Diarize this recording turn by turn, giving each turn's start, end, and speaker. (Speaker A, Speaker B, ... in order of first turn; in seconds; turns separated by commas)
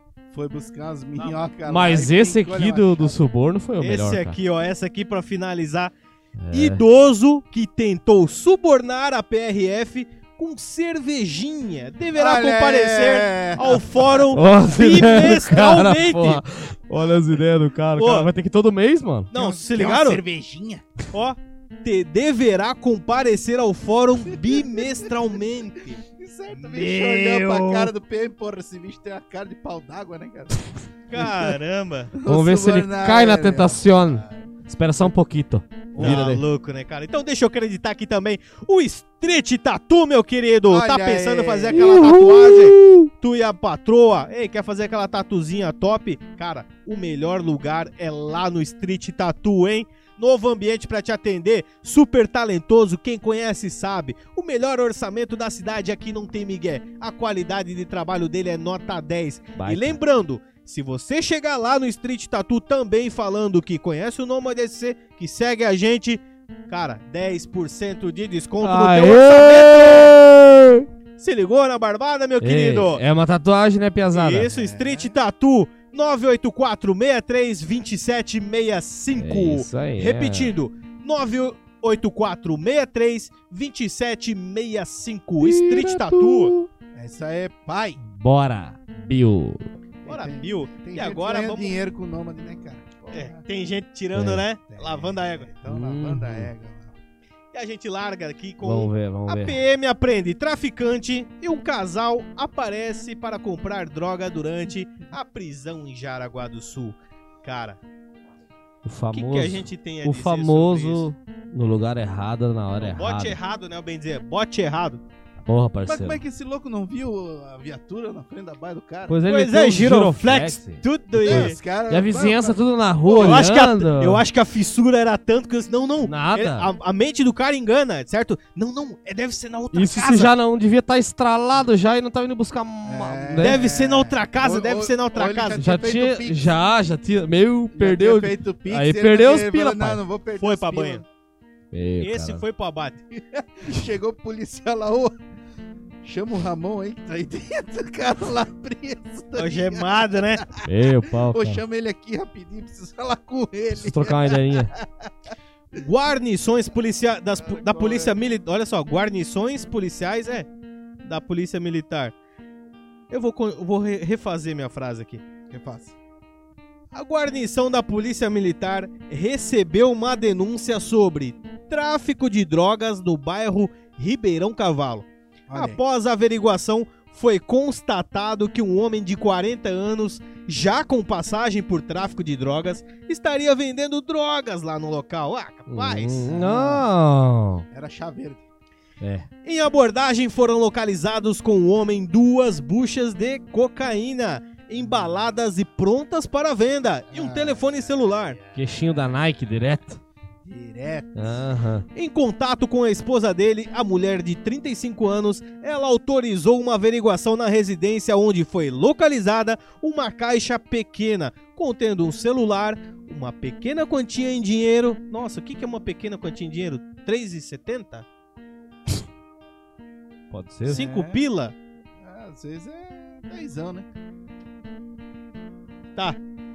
Speaker A: 0.3-3.2, Speaker B: 1.2-1.4, Speaker C: 1.7-4.4, Speaker B: 3.8-5.9, Speaker C: 6.4-6.8, Speaker B: 6.5-16.4, Speaker A: 12.2-13.9, Speaker C: 14.3-19.3, Speaker B: 18.0-18.3, Speaker B: 19.3-20.2, Speaker A: 19.3-20.8, Speaker B: 21.1-26.0, Speaker A: 24.3-24.9, Speaker A: 26.1-31.4, Speaker C: 26.5-27.9, Speaker B: 31.1-32.1, Speaker A: 32.1-34.5, Speaker C: 32.3-36.4, Speaker A: 35.9-36.4, Speaker B: 36.0-70.2, Speaker A: 40.7-42.2, Speaker C: 41.7-43.1, Speaker C: 59.6-60.0, Speaker C: 68.6-70.9, Speaker B: 71.2-73.0, Speaker C: 72.4-74.5, Speaker B: 74.1-86.5, Speaker A: 74.4-75.2, Speaker C: 79.1-80.5, Speaker C: 85.4-86.7, Speaker A: 87.0-88.0, Speaker C: 88.0-89.7, Speaker A: 90.0-93.4, Speaker B: 90.1-91.7, Speaker B: 93.1-95.5, Speaker C: 94.2-94.4, Speaker A: 94.7-97.0, Speaker C: 95.7-96.5, Speaker B: 97.5-107.8, Speaker C: 98.6-99.6, Speaker C: 108.8-113.4, Speaker B: 109.1-111.1, Speaker B: 112.8-115.0, Speaker C: 115.5-116.2, Speaker A: 115.9-119.2, Speaker C: 119.1-124.2, Speaker B: 119.3-121.6, Speaker A: 121.2-123.5, Speaker B: 123.2-130.3, Speaker C: 126.0-126.7, Speaker C: 129.7-133.6, Speaker A: 132.8-136.6, Speaker B: 133.4-135.7, Speaker C: 135.6-140.0, Speaker A: 137.8-141.1, Speaker B: 140.4-141.0, Speaker C: 141.7-142.4, Speaker B: 142.0-143.0, Speaker A: 143.1-145.2, Speaker A: 146.0-150.7, Speaker B: 149.3-150.4, Speaker C: 150.7-151.6, Speaker A: 151.2-155.3, Speaker C: 153.8-154.7, Speaker B: 155.7-160.5, Speaker A: 157.4-158.2, Speaker B: 161.0-162.1, Speaker B: 163.1-165.2, Speaker A: 165.5-165.9, Speaker B: 166.9-186.3, Speaker A: 175.5-175.8, Speaker C: 185.7-187.7, Speaker A: 186.3-186.9, Speaker A: 187.7-188.4, Speaker C: 189.0-189.3, Speaker B: 189.4-198.4, Speaker A: 197.1-199.0, Speaker C: 198.6-200.0, Speaker A: 200.4-201.4, Speaker C: 201.2-201.9, Speaker B: 201.9-218.1, Speaker C: 220.3-220.8, Speaker B: 220.7-221.6, Speaker A: 220.7-221.2, Speaker A: 222.0-223.9